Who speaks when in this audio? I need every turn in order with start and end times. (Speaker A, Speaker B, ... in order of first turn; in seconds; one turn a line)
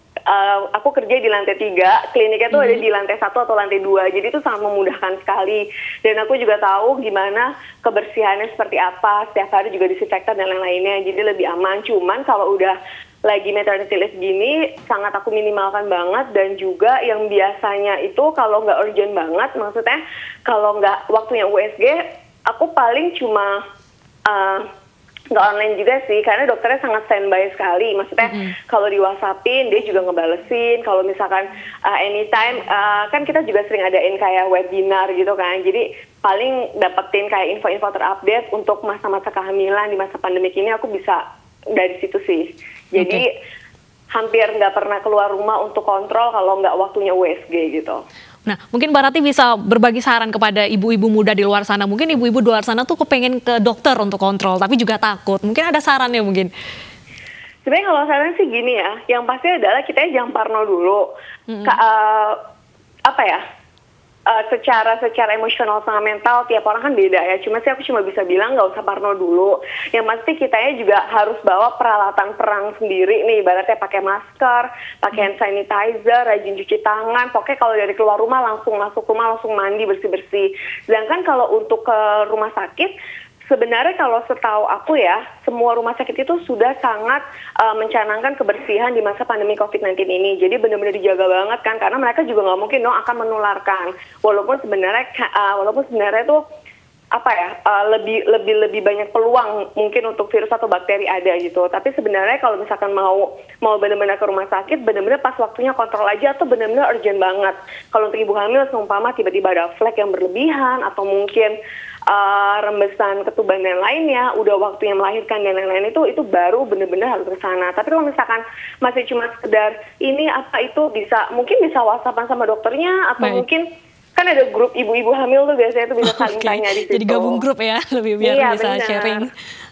Speaker A: 0.3-23.6
Speaker B: 2.5-2.8
Speaker A: 24.3-24.6
Speaker A: 25.3-41.2
Speaker A: 41.7-43.3
Speaker B: 43.0-43.2
Speaker A: 44.1-48.0
Speaker B: 48.5-56.5
Speaker A: 57.6-61.1
Speaker B: 61.5-61.8
Speaker A: 61.6-62.4
Speaker A: 63.0-63.4
Speaker A: 64.3-82.9
Speaker A: 83.5-96.4
Speaker A: 97.1-111.5
Speaker A: 112.1-127.4
Speaker B: 123.2-123.4
Speaker B: 126.0-129.3
Speaker A: 128.2-129.3